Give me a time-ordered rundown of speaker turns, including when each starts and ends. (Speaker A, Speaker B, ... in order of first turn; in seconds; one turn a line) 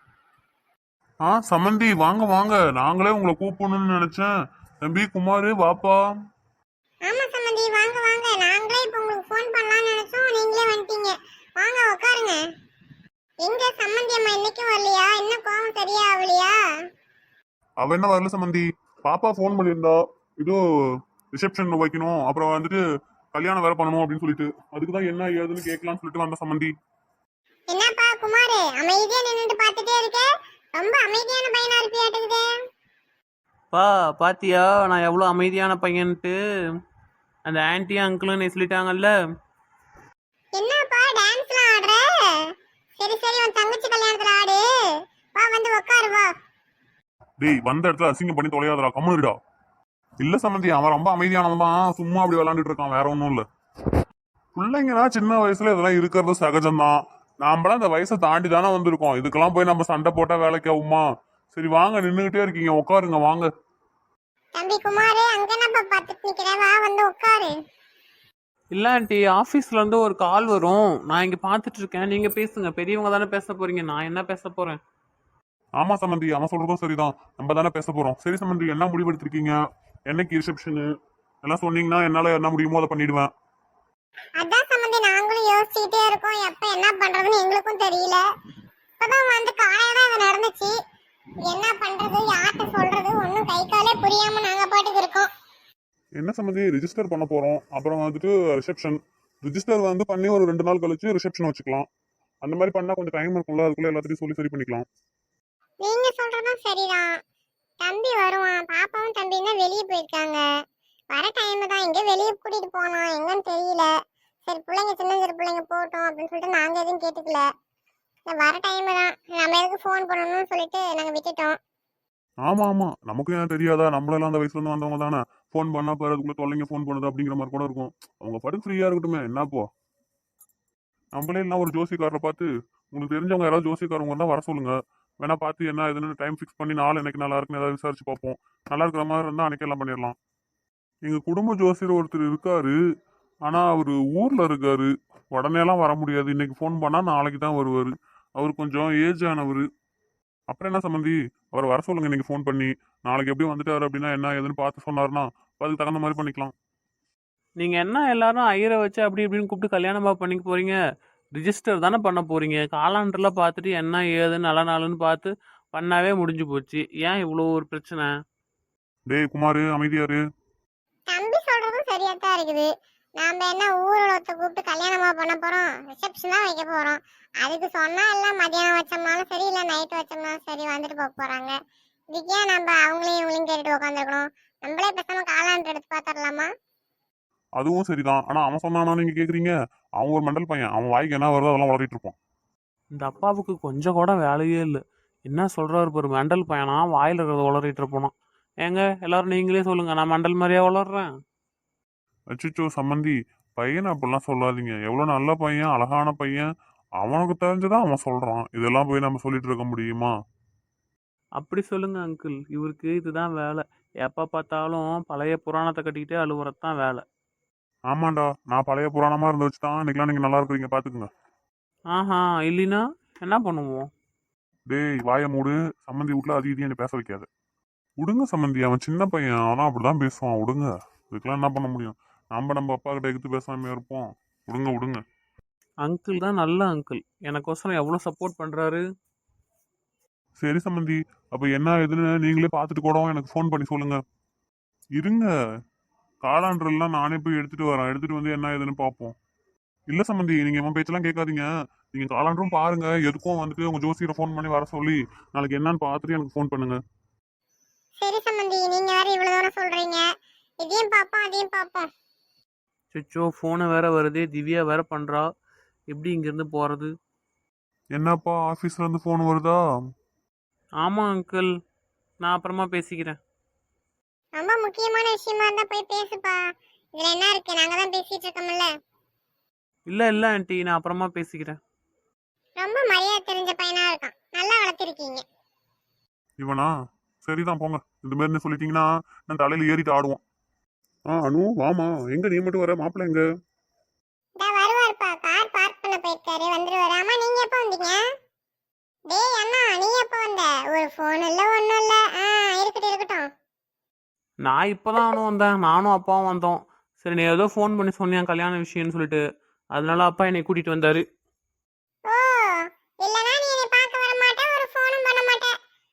Speaker A: 1.2-4.3
Speaker A: 4.8-6.0
Speaker B: 7.1-12.4
Speaker B: 13.4-16.6
Speaker A: 17.8-20.6
Speaker A: 21.3-22.8
Speaker A: 23.3-26.7
Speaker B: 27.7-32.5
Speaker C: 33.7-36.4
Speaker C: 37.5-39.1
Speaker B: 40.5-42.1
Speaker B: 43.0-44.6
Speaker B: 45.3-46.3
Speaker A: 47.4-49.4
Speaker A: 50.2-53.4
Speaker A: 54.5-63.5
Speaker B: 64.6-67.5
Speaker C: 68.7-74.8
Speaker A: 75.8-79.5
Speaker A: 80.1-80.8
Speaker A: 81.4-83.3
Speaker B: 84.4-88.2
Speaker B: 89.0-90.7
Speaker B: 91.4-95.3
Speaker A: 96.2-101.9
Speaker A: 102.4-104.8
Speaker B: 105.8-107.1
Speaker B: 107.8-110.4
Speaker B: 111.1-113.9
Speaker B: 114.5-117.5
Speaker B: 118.3-121.5
Speaker A: 122.4-129.6
Speaker A: 131.2-140.2
Speaker A: 141.1-142.7
Speaker A: 143.5-149.6
Speaker A: 150.5-156.5
Speaker C: 157.6-160.8
Speaker C: 161.3-168.1
Speaker A: 169.1-170.2
Speaker B: 171.1-181.5
Speaker B: 182.1-186.5
Speaker A: 187.6-192.2
Speaker C: 192.9-198.1
Speaker C: 198.6-201.1
Speaker A: 202.3-206.4
Speaker A: 207.0-210.1
Speaker C: 211.4-217.0
Speaker A: 217.9-221.1
Speaker C: 221.9-223.9
Speaker A: 224.7-227.3
Speaker A: 228.0-235.0
Speaker C: 235.8-238.8
Speaker A: 240.4-244.0
Speaker A: 245.0-245.3
Speaker A: 246.2-249.1
Speaker A: 249.9-256.8
Speaker B: 258.0-260.1
Speaker B: 260.6-261.9
Speaker C: 262.9-265.3
Speaker C: 265.9-266.9
Speaker A: 267.9-269.6
Speaker C: 270.8-271.5
Speaker C: 272.2-273.2
Speaker B: 274.4-276.4
Speaker B: 277.0-278.7
Speaker C: 279.9-281.6
Speaker B: 282.6-285.2
Speaker A: 286.4-286.7
Speaker A: 287.2-290.2
Speaker A: 291.1-293.2
Speaker B: 294.4-298.0
Speaker B: 299.1-303.3
Speaker C: 304.4-309.2
Speaker C: 309.7-311.0
Speaker B: 312.1-315.5